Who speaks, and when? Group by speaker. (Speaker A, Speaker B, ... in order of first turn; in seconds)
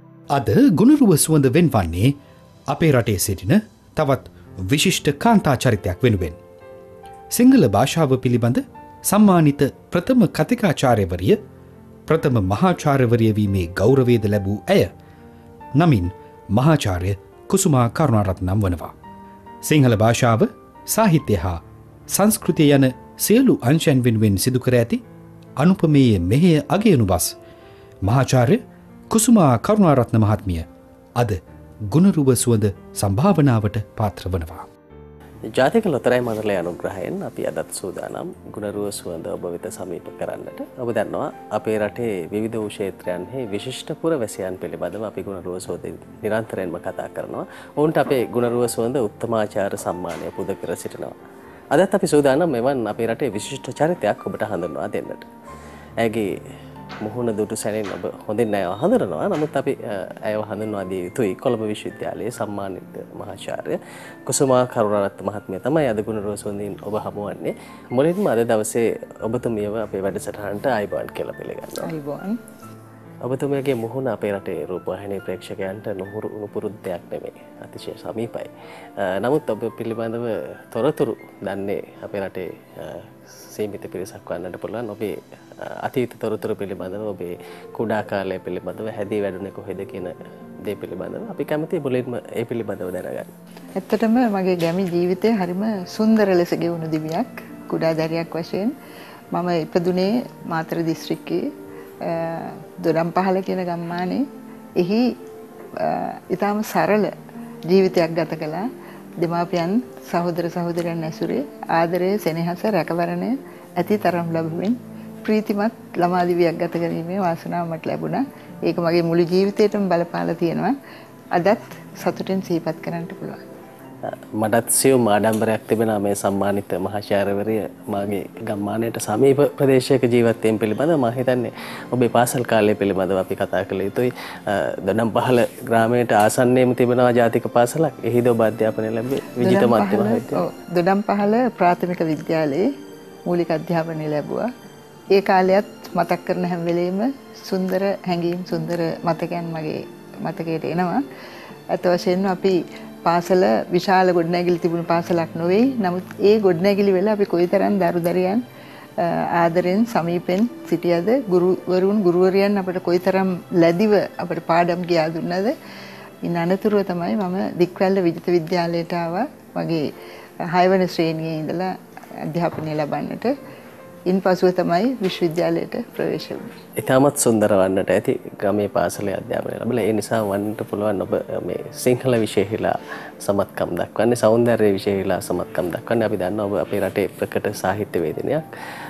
Speaker A: 0.3-2.1, 2.7-6.4, 7.3-11.4, 12.1-14.9, 15.8-18.9, 19.6-25.0, 25.6-27.3, 28.0-30.6, 31.2-34.7
Speaker B: 35.5-51.1, 51.7-55.3, 56.0-56.3, 57.0-71.9, 73.2-93.3, 124.0-140.4, 176.8-188.4
Speaker C: 71.8-72.4, 93.8-98.7, 99.3-101.5, 102.0-104.2, 104.8-105.1, 105.8-107.1, 107.7-108.7, 109.2-120.8, 121.3-123.4, 139.4-142.7, 143.2-144.5, 145.1-151.0, 151.7-158.4, 159.0-165.5, 166.2-169.8, 170.5-173.3, 174.1-176.5